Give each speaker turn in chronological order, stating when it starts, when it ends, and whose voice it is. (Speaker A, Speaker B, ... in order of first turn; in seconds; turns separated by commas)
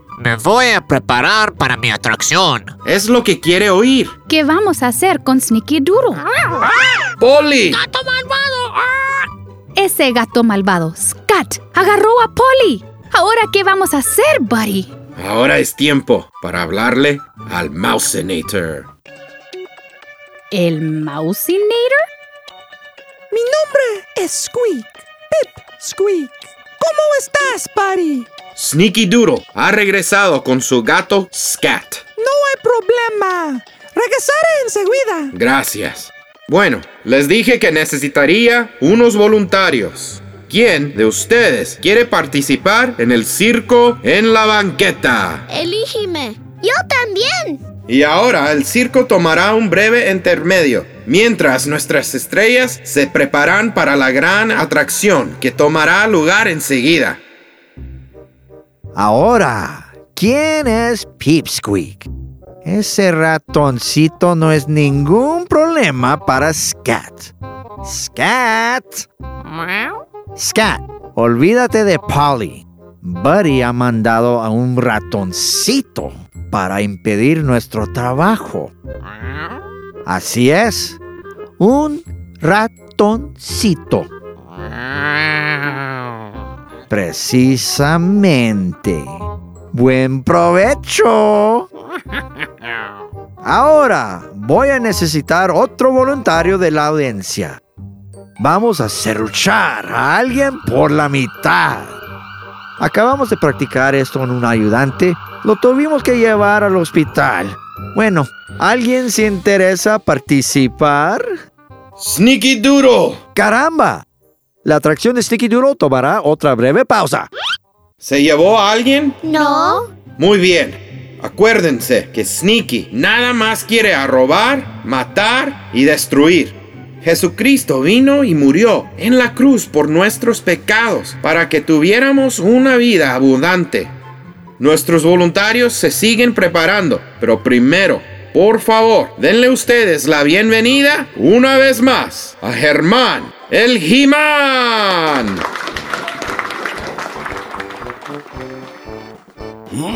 Speaker A: 0.2-2.7, Speaker B: 2.8-4.2, Speaker C: 4.3-6.2, Speaker B: 7.2-7.8, Speaker D: 7.9-8.8, Speaker C: 9.8-14.9, Speaker B: 15.2-18.9, Speaker C: 20.5-22.0, Speaker D: 23.3-28.3, Speaker B: 28.6-32.0, Speaker D: 32.2-35.3, Speaker B: 35.3-45.4, Speaker E: 45.5-47.6, Speaker B: 47.9-57.2, Speaker F: 58.9-62.1, Speaker F: 62.6-69.1, Speaker F: 70.3-78.7, Speaker F: 80.0-81.0, Speaker F: 81.6-84.1, Speaker F: 86.9-91.7, Speaker F: 93.4-97.6, Speaker F: 98.4-102.0, Speaker F: 102.8-111.3, Speaker B: 112.0-113.2, Speaker F: 113.3-114.0, Speaker F: 114.6-117.3, Speaker B: 118.0-119.2, Speaker E: 119.2-119.9, Speaker B: 120.2-133.9, Speaker B: 134.6-145.4